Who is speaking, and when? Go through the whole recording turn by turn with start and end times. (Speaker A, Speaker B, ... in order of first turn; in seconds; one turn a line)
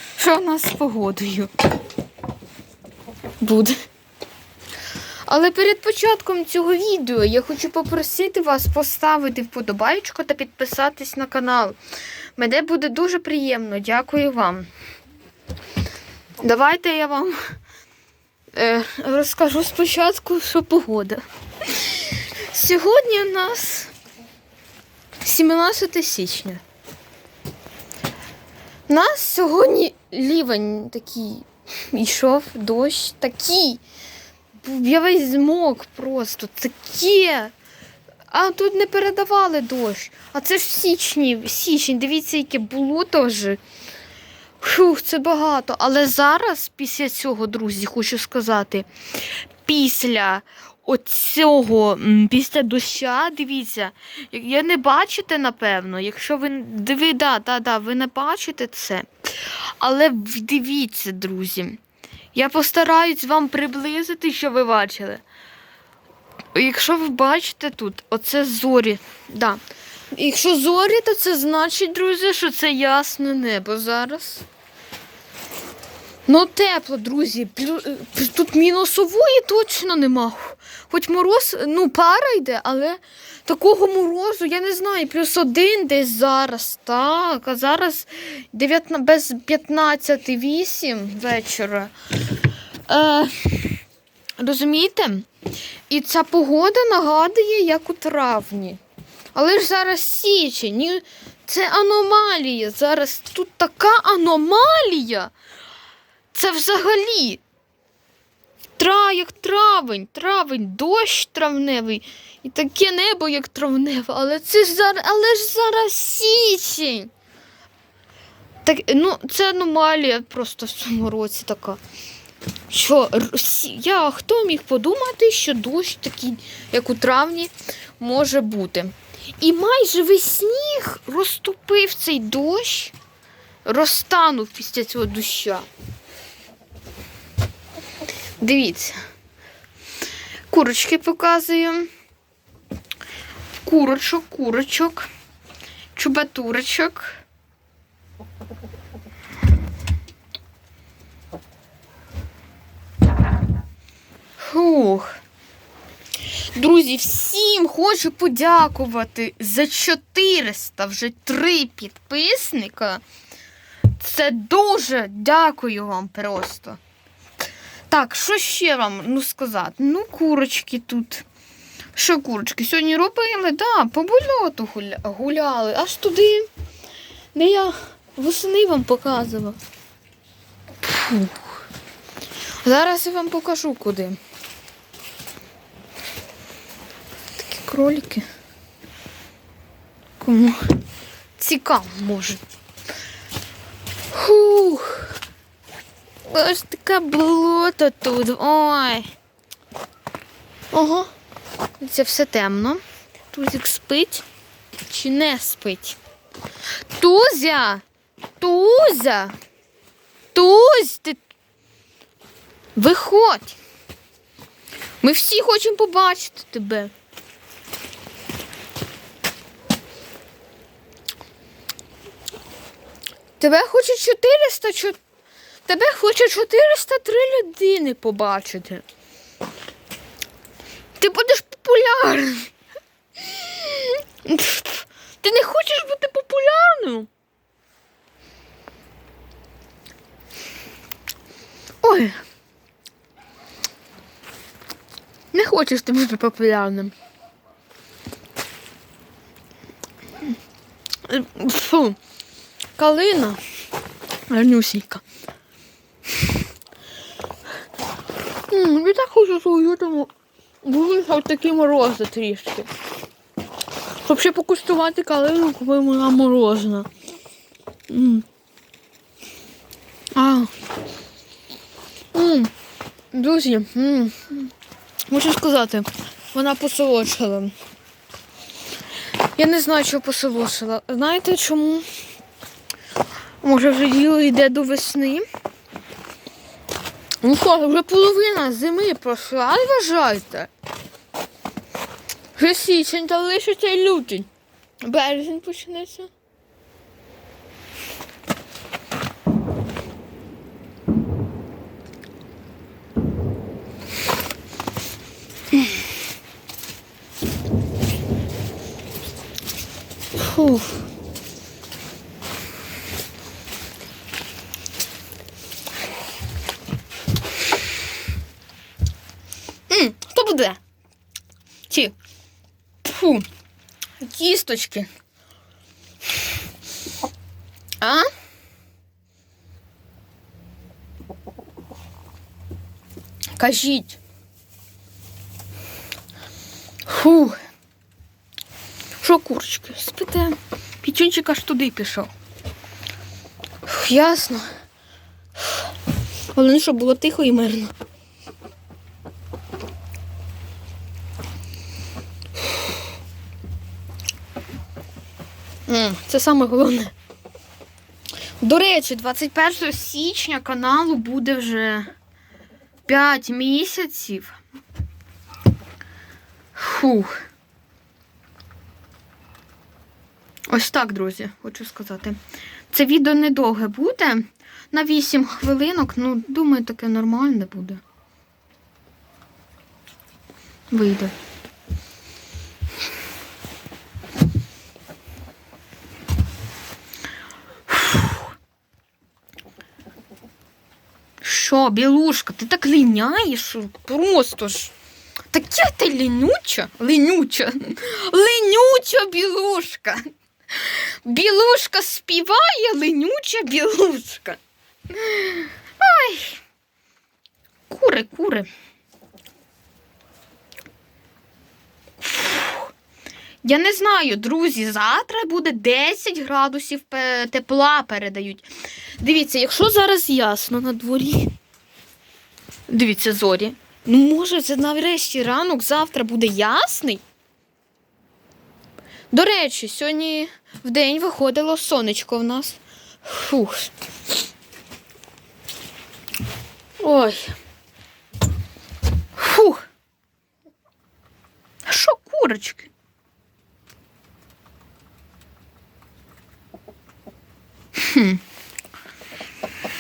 Speaker A: 0.2-1.5
Speaker A: 3.4-3.8
Speaker A: 5.3-11.8
Speaker A: 12.4-14.7
Speaker A: 16.4-17.4
Speaker A: 18.5-23.9
Speaker A: 25.2-26.6
Speaker A: 28.9-33.8
Speaker A: 34.6-37.5
Speaker A: 38.3-43.6
Speaker A: 44.6-48.9
Speaker A: 49.6-61.8
Speaker A: 62.3-65.2
Speaker A: 66.5-69.6
Speaker A: 70.1-74.4
Speaker A: 76.3-91.9
Speaker A: 92.9-93.8
Speaker A: 94.4-95.3
Speaker A: 95.9-98.8
Speaker A: 99.3-105.3
Speaker A: 106.3-107.4
Speaker A: 108.8-117.1
Speaker A: 118.6-121.8
Speaker A: 122.7-132.9
Speaker A: 133.7-135.7
Speaker A: 138.4-139.0
Speaker A: 140.5-141.9
Speaker A: 143.6-145.1
Speaker A: 146.0-147.2
Speaker A: 154.4-155.2
Speaker A: 156.6-163.0
Speaker A: 164.0-166.8
Speaker A: 167.9-171.2
Speaker A: 171.9-176.5
Speaker A: 177.3-179.6
Speaker A: 180.8-181.5
Speaker A: 182.6-184.2
Speaker A: 187.4-188.2
Speaker A: 190.2-190.6
Speaker A: 191.4-192.4
Speaker A: 194.1-195.2
Speaker A: 196.3-199.1
Speaker A: 200.7-201.1
Speaker A: 201.8-204.2
Speaker A: 204.9-206.0
Speaker A: 206.9-207.8
Speaker A: 208.4-209.3
Speaker A: 210.3-211.2
Speaker A: 212.8-213.6
Speaker A: 215.0-216.9
Speaker A: 223.4-225.0
Speaker A: 225.7-228.8
Speaker A: 231.0-232.5
Speaker A: 233.2-237.1
Speaker A: 241.8-242.2
Speaker A: 245.3-246.9
Speaker A: 251.1-252.0
Speaker A: 252.8-253.4
Speaker A: 254.3-255.0
Speaker A: 258.5-260.1
Speaker A: 260.6-262.7
Speaker A: 264.0-266.9
Speaker A: 267.9-268.2
Speaker A: 270.1-270.5
Speaker A: 272.1-272.5
Speaker A: 273.1-274.5
Speaker A: 275.1-277.5
Speaker A: 279.4-281.9
Speaker A: 283.4-285.2
Speaker A: 287.2-290.5
Speaker A: 292.4-294.3
Speaker A: 294.8-296.1
Speaker A: 310.2-310.8
Speaker A: 319.7-320.6
Speaker A: 321.7-321.9
Speaker A: 322.8-323.3
Speaker A: 324.0-324.9
Speaker A: 327.8-328.1
Speaker A: 333.4-334.0
Speaker A: 336.9-337.4
Speaker A: 339.0-342.1
Speaker A: 343.6-344.5
Speaker A: 345.4-345.7
Speaker A: 346.3-347.7
Speaker A: 355.7-356.9
Speaker A: 358.4-361.9
Speaker A: 362.9-364.4
Speaker A: 366.6-367.2
Speaker A: 370.5-372.2
Speaker A: 372.7-377.8
Speaker A: 380.7-381.1
Speaker A: 387.7-388.2
Speaker A: 391.2-394.7
Speaker A: 395.3-404.4
Speaker A: 404.9-406.4
Speaker A: 407.7-408.5
Speaker A: 412.0-412.7
Speaker A: 413.4-421.3
Speaker A: 422.7-427.0
Speaker A: 429.1-433.7
Speaker A: 436.8-437.3
Speaker A: 439.2-439.6
Speaker A: 441.7-442.7
Speaker A: 447.8-448.2